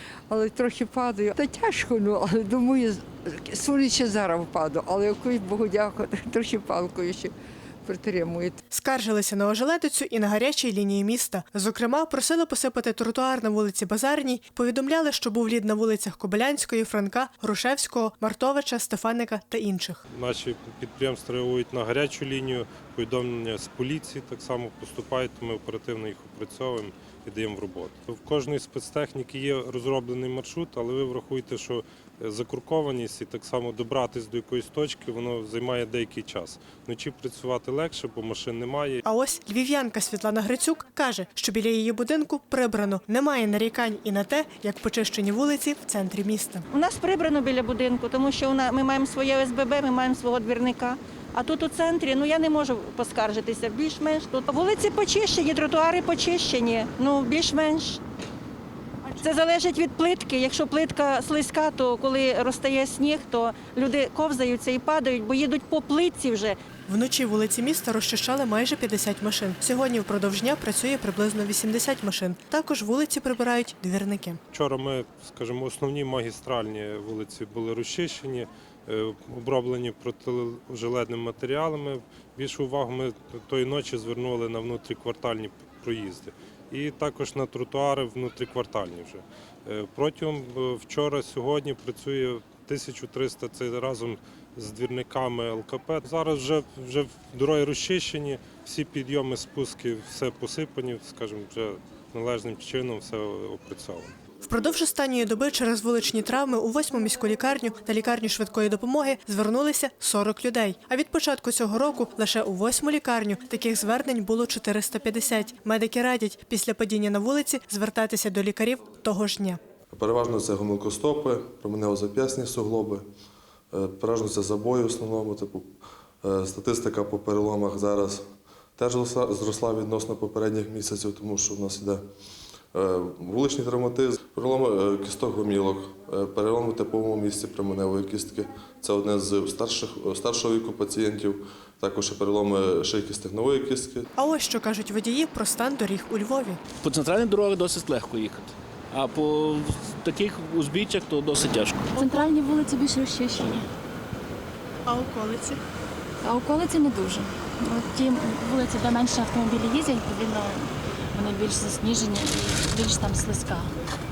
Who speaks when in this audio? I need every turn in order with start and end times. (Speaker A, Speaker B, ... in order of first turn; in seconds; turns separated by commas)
Speaker A: 0.3-7.3, Speaker A: 7.8-8.6, Speaker B: 8.7-20.0, Speaker C: 20.1-39.0, Speaker B: 39.0-46.6, Speaker D: 46.7-58.0, Speaker D: 59.1-66.5, Speaker B: 66.9-74.4, Speaker C: 74.5-104.1, Speaker B: 104.4-119.6, Speaker E: 119.9-123.0, Speaker E: 123.7-125.7, Speaker E: 126.2-128.2, Speaker E: 128.8-132.0, Speaker E: 132.7-144.1, Speaker B: 144.2-146.6, Speaker F: 146.8-151.7, Speaker G: 151.9-153.7, Speaker B: 154.8-155.6, Speaker G: 156.2-163.7